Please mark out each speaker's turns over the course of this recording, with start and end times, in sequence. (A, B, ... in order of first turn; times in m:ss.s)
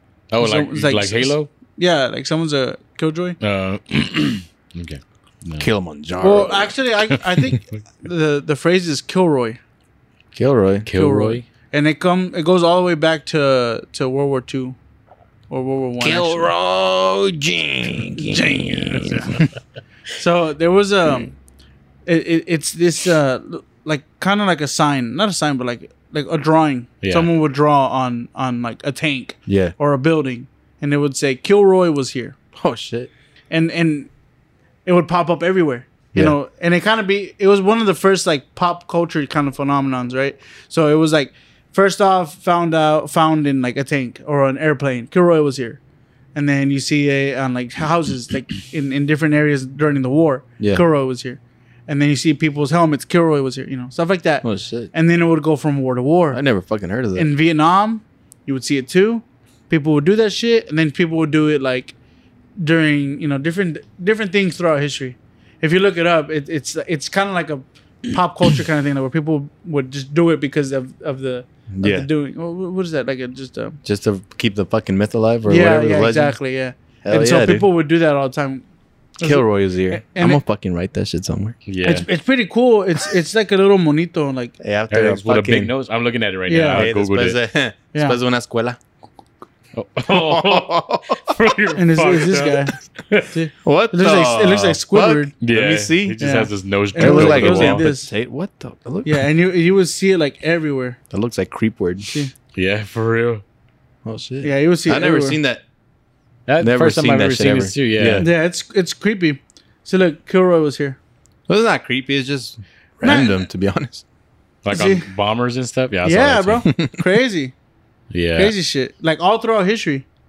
0:00.3-0:01.5 A
0:00.4-0:03.4 B
0:03.4-0:05.7 A
0:05.6-0:06.7 C
0:06.2-0:09.6 B
0:10.4-0:10.9 C
0:10.9-0:11.4 A
0:10.9-0:14.8 B
0:15.5-0:16.5 B
0:16.0-0:19.4 C
0:18.2-0:19.4 B
0:20.1-0:21.3 B
0:22.1-0:32.4 B
0:27.0-0:27.3 A
0:29.5-0:29.7 C
0:32.6-0:33.1 C
0:33.5-0:34.1 B
0:34.9-0:45.8 B
0:46.4-0:56.4 B
0:54.4-0:54.9 C
0:56.3-0:57.3 C
0:57.1-1:02.0 B
1:02.6-1:13.8 B
1:11.7-1:12.1 C
1:13.8-1:16.4 C
1:15.5-1:18.6 B
1:17.0-1:17.7 C
1:19.2-1:20.4 B
1:19.2-1:21.6 C
1:21.7-1:22.1 A
1:21.8-1:24.6 B
1:24.6-1:25.7 C
1:24.9-1:27.4 A
1:26.5-1:26.9 B
1:26.7-1:28.8 C
1:29.7-1:33.3 A
1:30.1-1:31.3 C
1:31.8-1:32.7 B
1:33.3-1:35.3 B
1:33.6-1:36.2 C
1:35.4-1:37.9 A
1:36.2-1:38.1 B
1:37.0-1:39.2 C
1:39.0-1:41.0 B
1:41.1-1:42.1 C
1:42.1-1:42.3 B
1:42.6-1:43.4 A
1:44.0-1:45.6 C
1:44.4-1:45.4 B
1:46.5-1:48.3 A
1:46.6-1:48.3 C
1:48.2-1:51.0 B
1:51.5-1:54.0 C
1:53.0-1:53.4 B
1:54.6-1:56.7 A
1:54.7-1:55.1 B
1:56.0-1:57.5 B
1:56.7-1:57.0 C
1:58.1-1:58.6 A
1:58.4-2:00.1 B